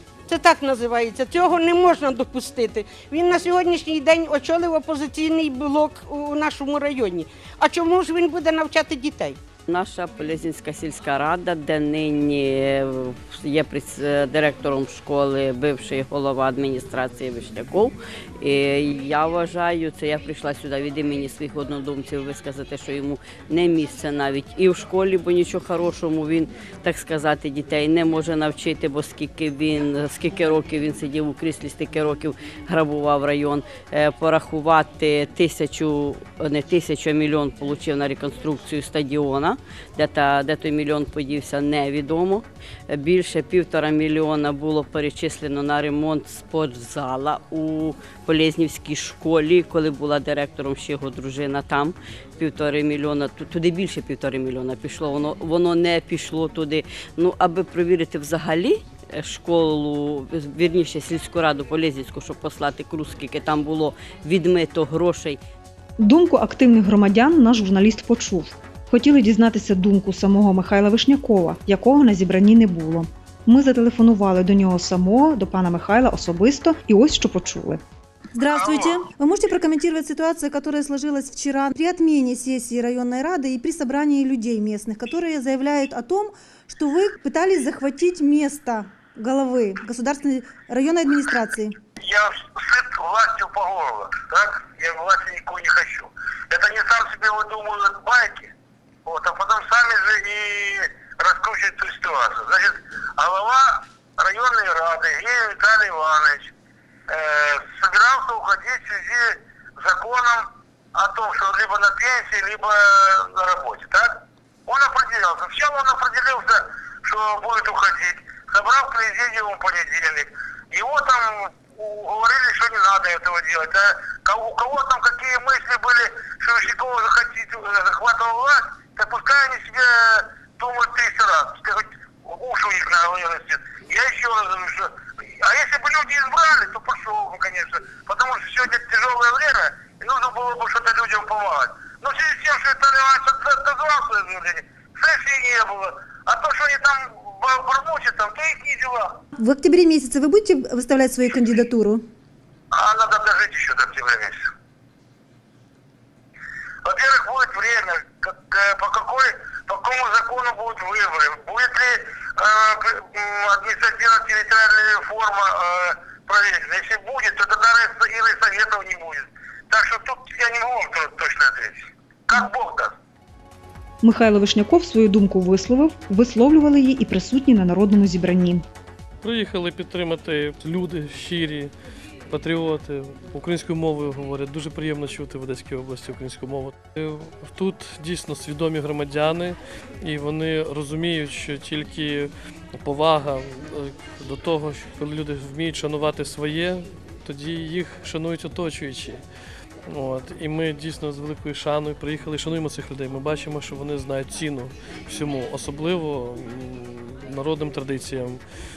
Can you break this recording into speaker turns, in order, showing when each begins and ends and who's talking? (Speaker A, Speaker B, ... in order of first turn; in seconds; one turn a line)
Speaker A: 0.3-9.4
Speaker B: 9.7-65.4
Speaker C: 66.0-77.8
Speaker D: 78.3-91.7
Speaker E: 78.5-79.0
Speaker E: 92.0-98.5
Speaker E: 99.0-106.5
Speaker E: 107.1-149.2
Speaker D: 149.4-152.0
Speaker E: 152.7-154.5
Speaker E: 156.8-172.9
Speaker C: 174.0-178.6
Speaker F: 179.2-181.7
Speaker F: 182.3-192.3
Speaker F: 192.8-199.2
Speaker F: 199.9-208.4